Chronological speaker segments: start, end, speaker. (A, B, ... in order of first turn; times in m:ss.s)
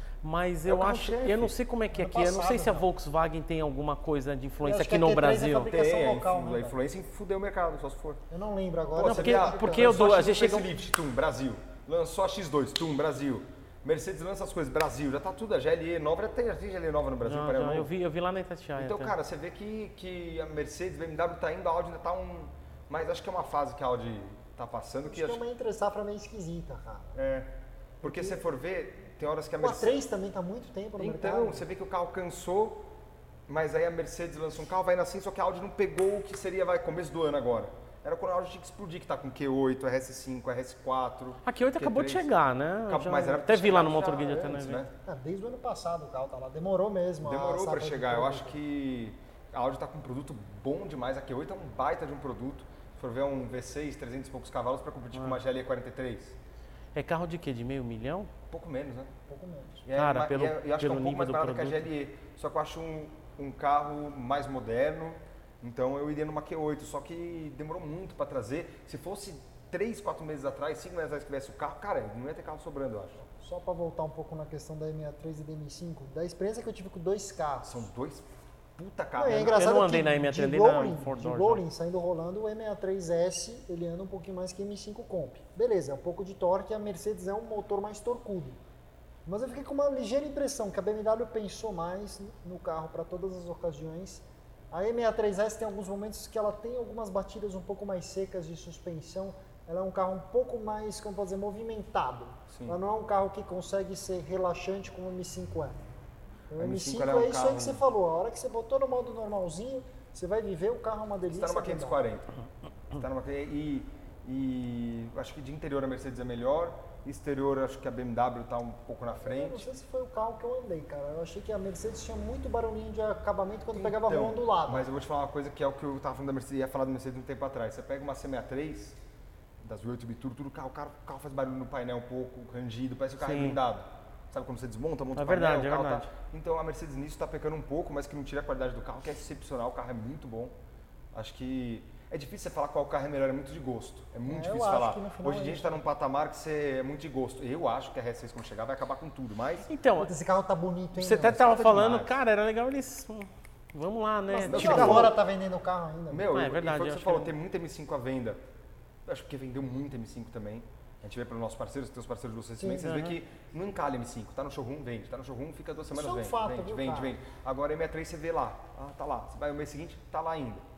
0:00.2-0:05.7 A
0:00.7-0:01.5 B
0:02.0-0:02.9 C
0:04.6-0:06.8 C
0:05.6-0:08.2 B
0:08.3-0:10.1 C
0:09.0-0:17.9 B
0:09.0-0:10.7 A
0:17.2-0:19.1 A
0:18.8-0:25.4 B
0:25.1-0:27.2 C
0:27.2-0:27.5 B
0:28.0-0:30.0 B
0:28.0-0:28.4 C
0:29.6-0:31.6 C
0:31.0-0:32.9 B
0:33.5-0:42.3 B
0:41.4-0:44.8 A
0:42.9-0:44.9 B
0:45.0-0:48.5 C
0:47.2-0:56.4 B
0:57.0-0:58.3 A
0:58.5-0:59.1 B
0:59.3-0:59.8 C
0:59.8-1:13.2 B
1:00.0-1:01.9 A
1:13.3-1:17.8 C
1:17.6-1:19.7 B
1:19.2-1:28.6 C
1:19.5-1:21.6 A
1:29.3-1:45.8 C
1:42.5-1:42.8 B
1:46.5-1:52.0 C
1:46.6-1:47.8 B
1:51.3-1:52.3 B
1:52.9-1:59.6 B
1:59.2-2:04.9 C
2:03.7-2:09.0 B
2:09.6-2:20.5 B
2:13.2-2:13.6 A
2:15.2-2:16.1 A
2:21.1-2:29.7 B
2:24.3-2:25.8 C
2:29.7-2:30.1 A
2:30.0-2:31.4 C
2:31.0-2:35.1 A
2:31.2-2:32.2 B
2:34.3-2:36.3 C
2:34.5-2:35.2 B
2:36.1-2:38.4 B
2:36.3-2:37.3 A
2:39.1-2:50.6 B
2:42.6-2:42.9 C
2:42.8-2:43.2 A
2:45.9-2:47.2 C